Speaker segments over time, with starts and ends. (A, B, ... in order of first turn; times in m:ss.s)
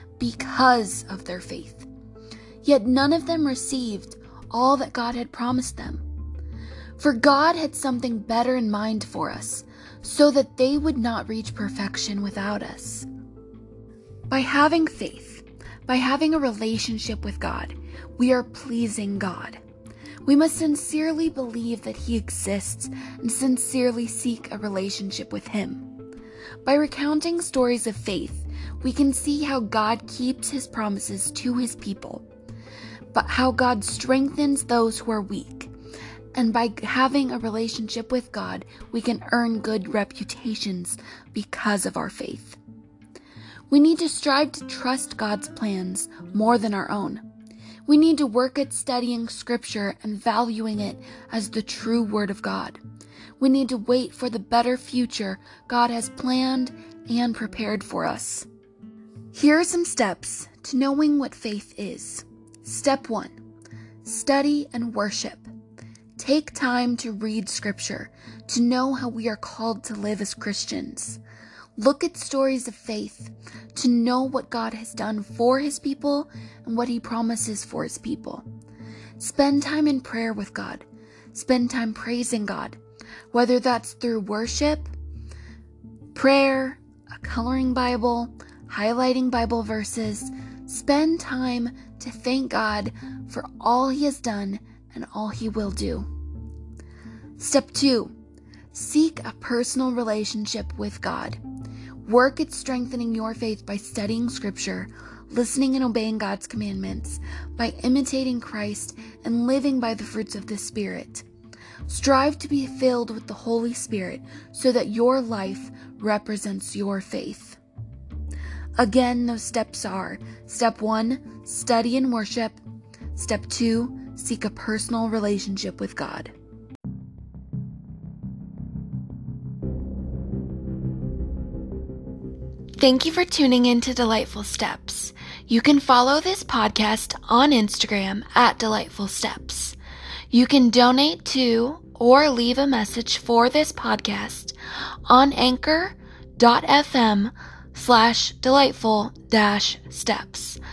0:00.2-0:01.9 A
0:02.6-0:06.0 A
0:07.0-0:13.1 A
0:14.3-0:19.6 A
0:20.2-0:25.9 A
0:26.6-0:32.2 A
0:33.1-0:35.7 A
0:36.4-0:42.6 A
0:43.7-0:47.2 A
0:47.9-0:52.8 A
0:53.4-0:58.5 A
0:59.3-1:03.4 A
1:04.0-1:05.5 A
1:06.2-1:11.2 A
1:11.8-1:18.5 A
1:19.2-1:22.8 A
1:23.3-1:24.9 A
1:26.1-1:36.1 A
1:37.4-1:38.1 A
1:38.7-1:41.4 A
1:42.1-1:51.2 A
1:51.9-1:57.6 A
1:58.8-2:02.6 A
2:03.2-2:06.3 A
2:12.8-2:19.8 A
2:20.3-2:24.6 A
2:25.1-2:30.6 A